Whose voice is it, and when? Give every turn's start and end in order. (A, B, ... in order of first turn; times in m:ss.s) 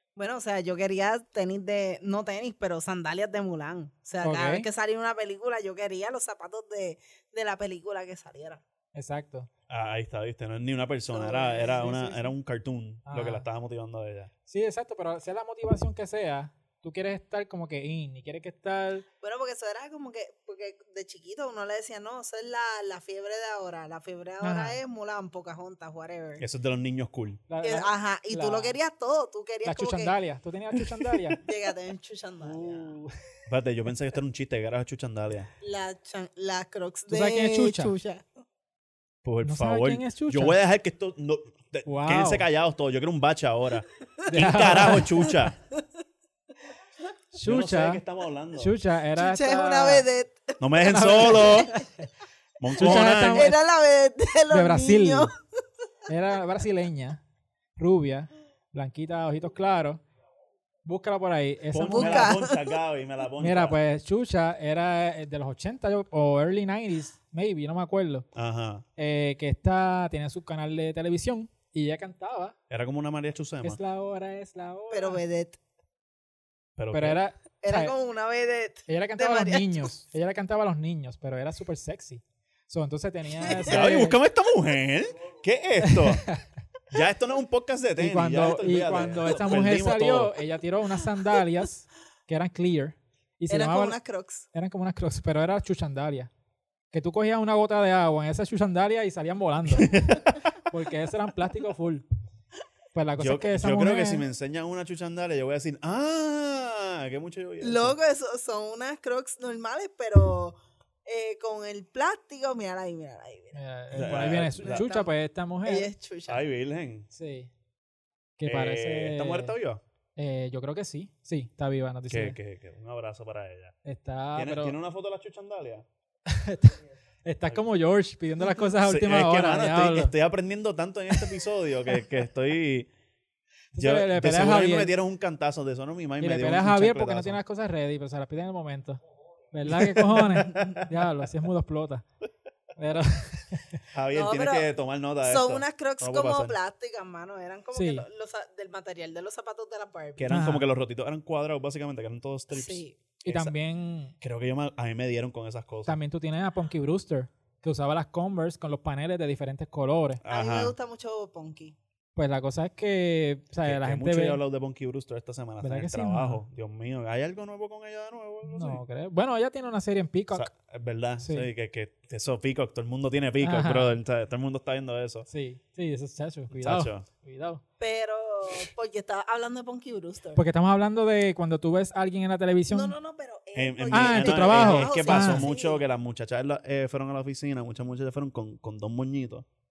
0:00.2-0:08.6 A
0:04.2-0:04.7 B
0:08.9-0:09.5 B
0:09.7-0:14.3 C
0:11.1-0:11.9 A
0:11.7-0:12.3 B
0:13.0-0:13.4 B
0:14.5-0:19.0 B
0:19.2-0:26.4 A
0:24.4-0:24.8 B
0:26.4-0:27.4 C
0:27.5-0:28.7 B
0:27.6-0:30.1 A
0:29.6-0:31.4 B
0:31.4-0:32.9 A
0:32.4-0:33.1 B
0:33.5-0:35.5 C
0:35.6-0:38.2 A
0:37.1-0:37.9 B
0:39.2-0:45.6 C
0:39.4-0:40.6 B
0:41.8-0:42.4 B
0:44.2-0:45.1 B
0:44.9-0:45.3 A
0:47.3-0:48.0 B
0:47.4-0:48.7 C
0:48.6-0:50.0 B
0:49.2-0:51.8 A
0:50.6-0:51.7 C
0:50.8-0:51.8 B
0:52.6-0:53.5 C
0:52.8-0:53.6 B
0:52.8-0:55.3 A
0:54.5-0:55.3 B
0:56.1-0:57.2 B
0:57.8-1:00.0 B
1:00.8-1:02.4 B
1:01.7-1:03.8 C
1:01.8-1:02.8 A
1:03.4-1:08.3 B
1:08.3-1:08.8 C
1:09.0-1:12.6 B
1:12.7-1:13.8 C
1:13.6-1:15.2 B
1:14.9-1:15.6 A
1:16.8-1:17.2 C
1:16.9-1:17.9 B
1:17.6-1:19.9 A
1:18.9-1:24.2 B
1:23.6-1:26.3 C
1:25.8-1:26.4 B
1:26.9-1:30.4 C
1:28.0-1:34.0 B
1:33.5-1:34.4 A
1:34.5-1:36.3 B
1:36.9-1:42.0 B
1:39.7-1:40.3 C
1:42.9-1:44.2 B
1:43.2-1:48.0 C
1:47.6-1:55.1 A
1:53.5-1:55.9 B
1:53.9-1:54.8 C
1:55.6-1:56.4 A
1:56.3-1:57.1 C
1:57.1-1:57.5 B
1:58.4-1:59.5 B
1:58.4-1:59.8 C
2:00.2-2:02.4 B
2:02.1-2:03.8 C
2:03.8-2:04.8 B
2:04.4-2:05.8 C
2:06.3-2:10.1 B
2:08.8-2:12.9 C
2:13.7-2:14.9 B
2:13.8-2:17.4 C
2:16.2-2:22.0 B
2:19.7-2:20.8 C
2:22.8-2:23.8 B
2:23.9-2:26.5 C
2:24.1-2:24.7 A
2:25.2-2:30.3 A
2:27.7-2:28.0 B
2:30.2-2:33.5 C
2:30.3-2:30.6 B
2:32.5-2:32.9 A
2:33.2-2:34.1 B
2:34.2-2:36.0 C
2:35.8-2:40.2 B
2:40.2-2:40.7 C
2:40.3-2:41.8 A
2:42.2-2:44.4 B
2:43.6-2:48.8 C
2:45.6-2:46.4 B
2:48.4-2:50.5 B
2:50.3-2:55.2 C
2:51.2-2:51.5 B
2:53.4-2:54.0 B
2:55.3-2:57.6 B
2:56.5-2:57.1 C
2:57.8-3:00.4 A
3:00.3-3:02.9 B
3:02.7-3:05.8 A
3:03.5-3:09.4 C
3:03.9-3:05.4 B